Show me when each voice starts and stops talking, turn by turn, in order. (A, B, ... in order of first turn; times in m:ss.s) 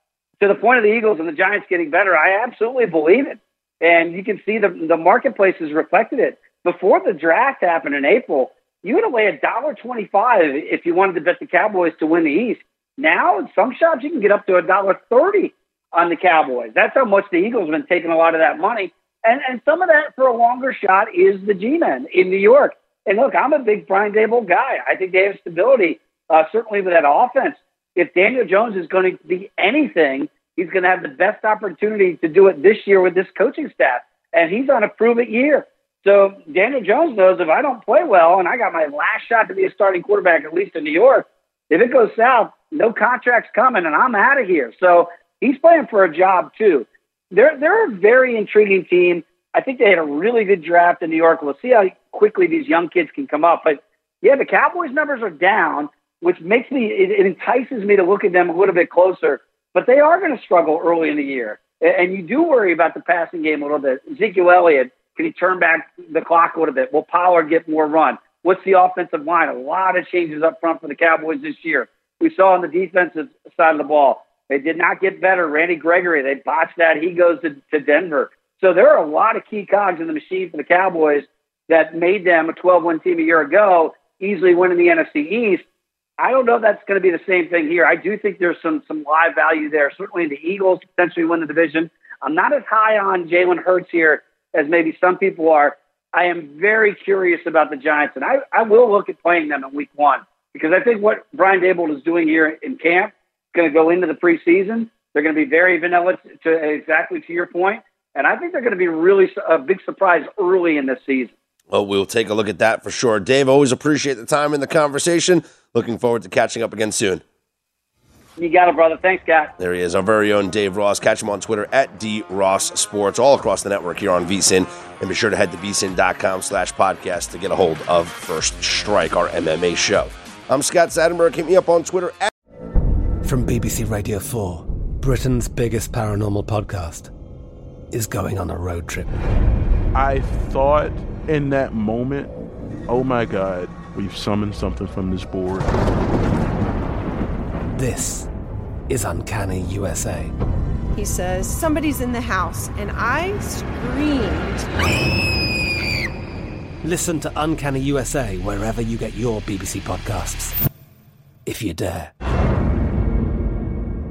0:00.4-1:25.6 A
1:26.2-1:51.3 A
1:51.7-1:57.2 B
1:58.4-1:59.5 A
1:59.6-2:12.3 B
2:13.2-2:17.1 C
2:17.9-2:19.1 C
2:19.9-2:22.3 D
2:22.9-2:25.7 D
2:27.7-2:28.3 C
2:28.9-2:30.3 C
2:30.9-2:34.7 E
2:36.8-2:40.5 C
2:41.4-2:42.1 C